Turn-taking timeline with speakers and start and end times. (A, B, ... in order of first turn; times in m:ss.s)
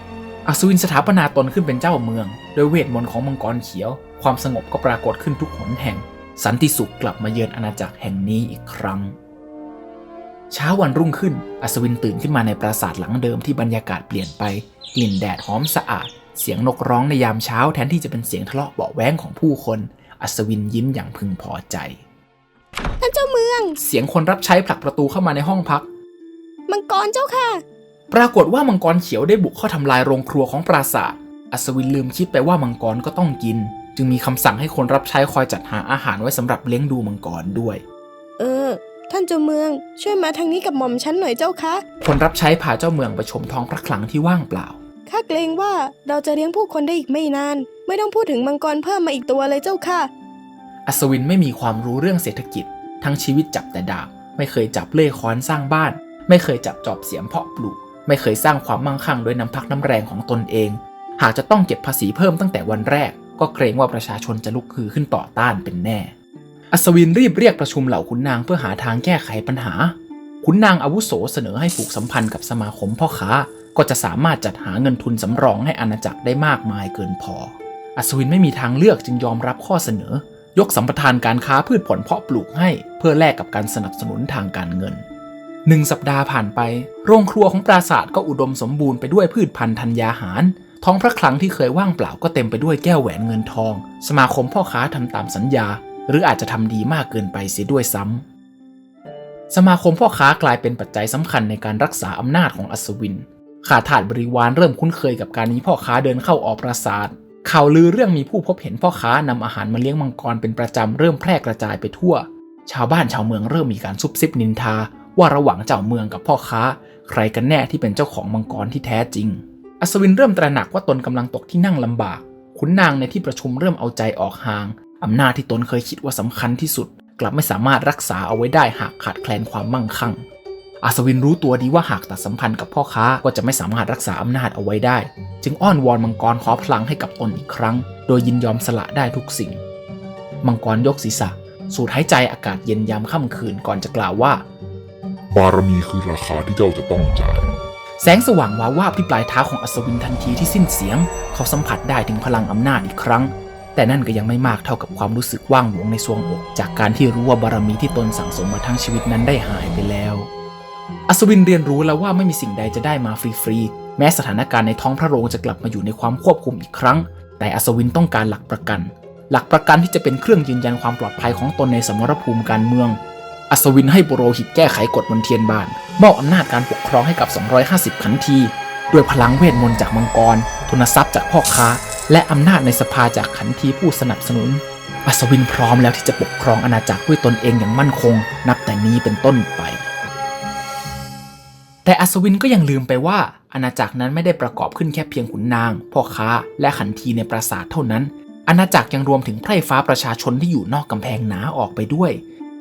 0:00.4-0:09.1 A
0:10.5-0:22.0 A
0:23.0-0:23.8 B
0:23.8-0:25.9 A
0:26.7-0:27.6 B
0:28.1-0:37.8 A
0:38.4-0:41.8 B
0:42.0-0:44.8 A
0:45.1-0:50.1 B
0:50.8-1:06.1 A
1:06.7-1:25.0 A
1:25.6-1:38.2 A
1:39.5-2:10.2 A
2:10.8-2:19.6 A
2:20.4-2:24.4 A
2:25.3-2:27.5 C
2:28.0-2:40.3 A
2:41.1-2:53.0 A
2:53.5-3:09.9 A
3:11.8-3:22.2 A